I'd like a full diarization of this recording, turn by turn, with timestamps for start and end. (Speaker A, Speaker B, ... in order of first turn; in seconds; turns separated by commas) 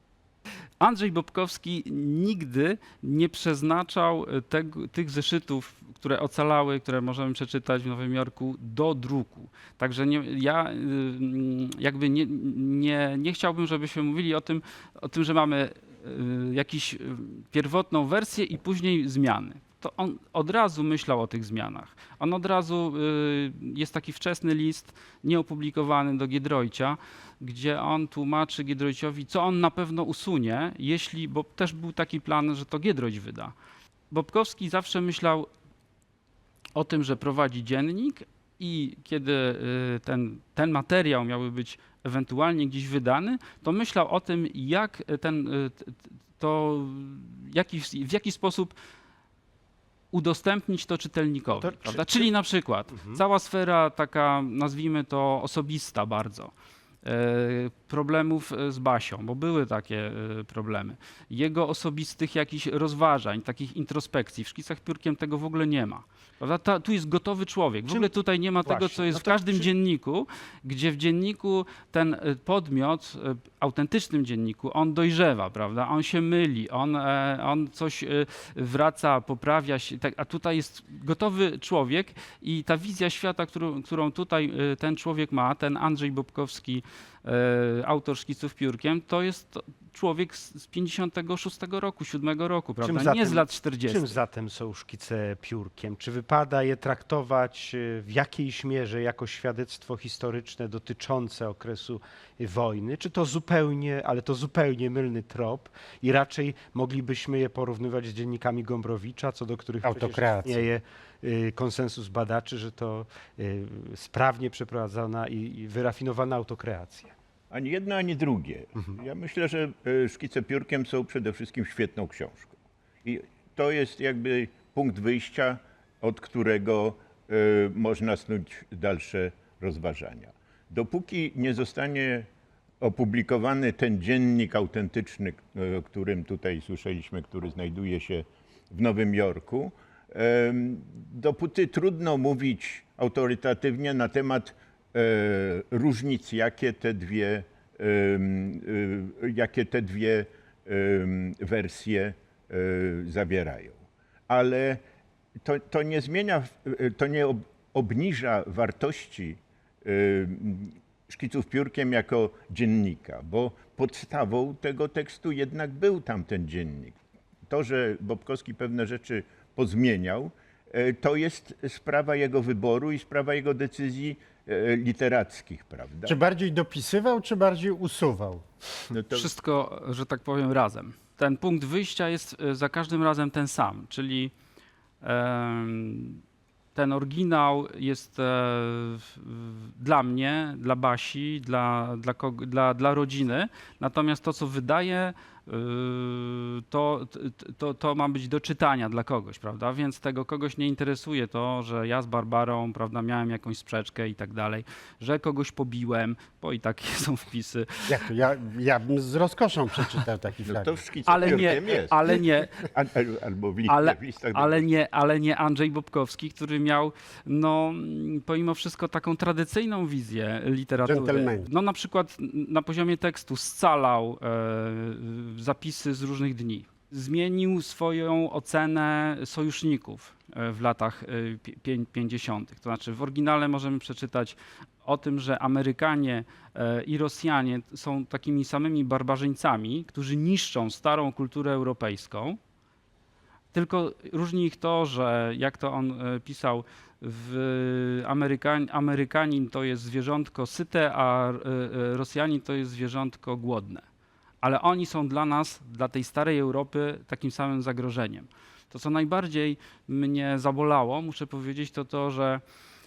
Speaker A: 0.8-33.5, Speaker A: 34.1-35.5, Speaker A: 36.7-48.7, Speaker A: 50.1-56.5, Speaker B: 51.5-52.3, Speaker B: 52.9-53.2, Speaker A: 57.0-94.2, Speaker B: 68.6-69.7, Speaker B: 92.8-117.1, Speaker C: 109.8-110.7, Speaker D: 117.5-132.3, Speaker D: 132.8-154.8, Speaker D: 155.4-176.2, Speaker C: 176.0-178.5, Speaker D: 178.9-179.3, Speaker A: 179.1-184.3, Speaker A: 185.0-186.2, Speaker A: 186.7-208.0, Speaker C: 207.8-210.8, Speaker D: 210.4-214.7, Speaker A: 211.0-212.6, Speaker A: 213.7-242.4, Speaker C: 220.8-221.5, Speaker A: 243.5-253.8, Speaker A: 254.4-262.4